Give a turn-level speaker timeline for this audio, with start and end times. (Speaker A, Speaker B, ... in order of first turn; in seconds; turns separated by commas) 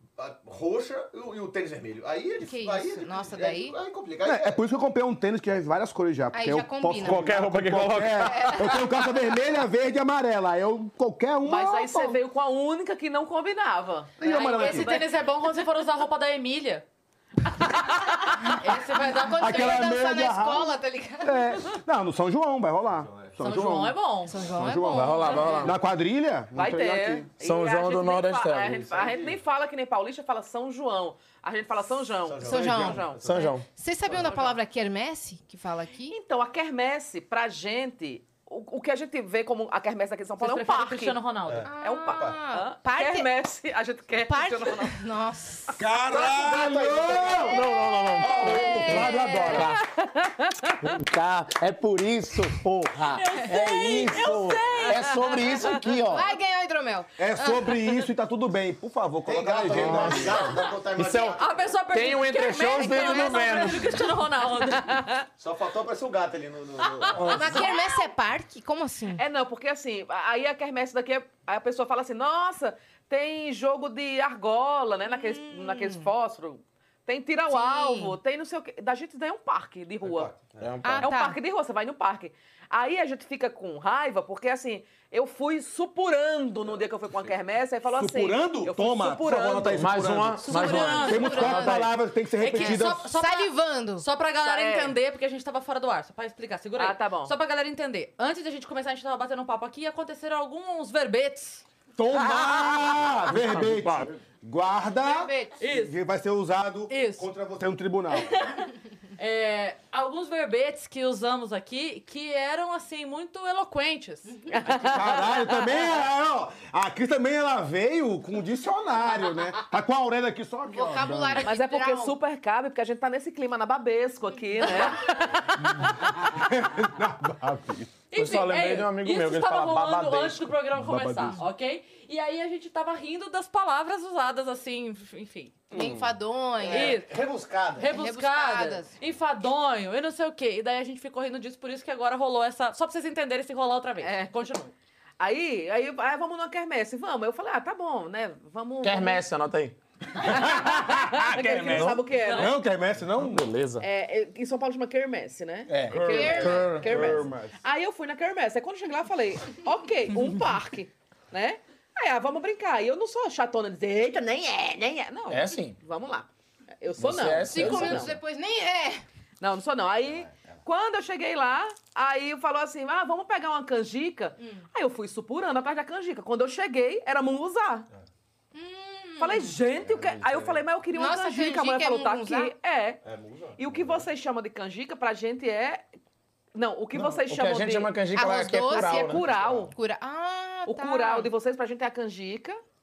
Speaker A: 0.2-4.6, Speaker B: 2.4-3.8, Speaker C: 4.2-12.2, Speaker B: 6.3-7.3, Speaker D: 7.0-8.8, Speaker B: 8.2-8.9, Speaker E: 11.4-14.9, Speaker C: 14.2-15.0, Speaker F: 14.2-16.9, Speaker B: 18.4-21.7, Speaker F: 18.5-19.9, Speaker C: 19.4-27.3, Speaker A: 22.9-23.4, Speaker F: 23.4-24.3, Speaker B: 24.3-25.6, Speaker D: 24.9-25.8, Speaker E: 25.3-25.7, Speaker E: 26.5-33.2, Speaker D: 27.4-28.8, Speaker A: 28.8-29.4, Speaker A: 32.2-33.5, Speaker B: 32.4-36.1, Speaker D: 33.1-33.7, Speaker A: 34.1-34.4, Speaker E: 34.1-34.6, Speaker E: 36.1-45.0, Speaker F: 40.4-41.7, Speaker A: 41.5-42.4, Speaker B: 41.7-43.3, Speaker B: 44.3-45.8, Speaker C: 45.8-47.7, Speaker D: 46.1-49.8, Speaker A: 46.1-47.6, Speaker B: 47.5-49.7, Speaker C: 48.3-49.7, Speaker E: 49.5-50.8, Speaker D: 50.8-56.3, Speaker F: 53.1-54.9, Speaker E: 54.0-55.8, Speaker B: 56.0-57.8, Speaker C: 57.2-60.4, Speaker A: 59.2-61.9, Speaker D: 59.6-64.0, Speaker F: 61.3-65.0, Speaker B: 62.5-64.0, Speaker E: 64.7-65.2, Speaker A: 65.4-67.6, Speaker D: 67.2-67.5, Speaker B: 67.3-69.2, Speaker E: 67.5-67.9, Speaker F: 67.5-67.8, Speaker E: 69.2-80.3, Speaker B: 75.1-76.1, Speaker B: 77.5-78.2, Speaker A: 80.0-80.7, Speaker D: 80.6-81.1, Speaker B: 80.8-81.4, Speaker E: 81.0-90.0, Speaker A: 86.6-87.3, Speaker C: 87.9-93.1, Speaker D: 89.7-91.8, Speaker B: 90.4-91.9, Speaker F: 90.5-91.8, Speaker F: 92.4-101.6, Speaker B: 92.5-94.0, Speaker E: 94.4-95.0, Speaker E: 96.8-97.3, Speaker C: 102.0-108.5, Speaker F: 102.2-102.5, Speaker D: 103.2-104.1, Speaker B: 105.0-105.6, Speaker F: 105.6-105.9, Speaker F: 106.9-107.3, Speaker F: 108.2-115.0, Speaker E: 114.5-115.5, Speaker C: 114.8-121.5, Speaker B: 120.7-122.2, Speaker E: 121.4-126.2, Speaker B: 124.6-124.9, Speaker C: 125.5-127.9, Speaker F: 128.1-135.6, Speaker D: 128.1-130.5, Speaker C: 130.7-131.4, Speaker B: 135.7-137.0, Speaker A: 136.6-137.9, Speaker F: 136.7-137.1, Speaker F: 137.8-144.7, Speaker B: 137.9-138.9, Speaker E: 144.0-144.6, Speaker E: 145.2-149.2, Speaker D: 148.8-149.8, Speaker C: 150.2-153.5, Speaker E: 150.2-152.5, Speaker D: 151.3-152.0, Speaker F: 152.1-152.5, Speaker D: 153.2-153.8, Speaker E: 153.8-166.3, Speaker D: 155.7-157.2, Speaker B: 156.0-157.1, Speaker C: 156.3-157.5, Speaker D: 165.3-165.8, Speaker E: 166.8-168.2, Speaker D: 167.0-168.1, Speaker B: 167.5-169.0, Speaker E: 169.4-177.9, Speaker B: 178.5-179.6, Speaker E: 179.2-183.0, Speaker A: 179.8-180.6, Speaker B: 180.9-182.5, Speaker A: 183.0-184.1, Speaker E: 183.6-185.8, Speaker E: 186.5-188.0, Speaker D: 186.9-189.2, Speaker B: 188.1-191.3, Speaker E: 188.7-189.7, Speaker A: 189.1-189.7, Speaker E: 190.7-192.6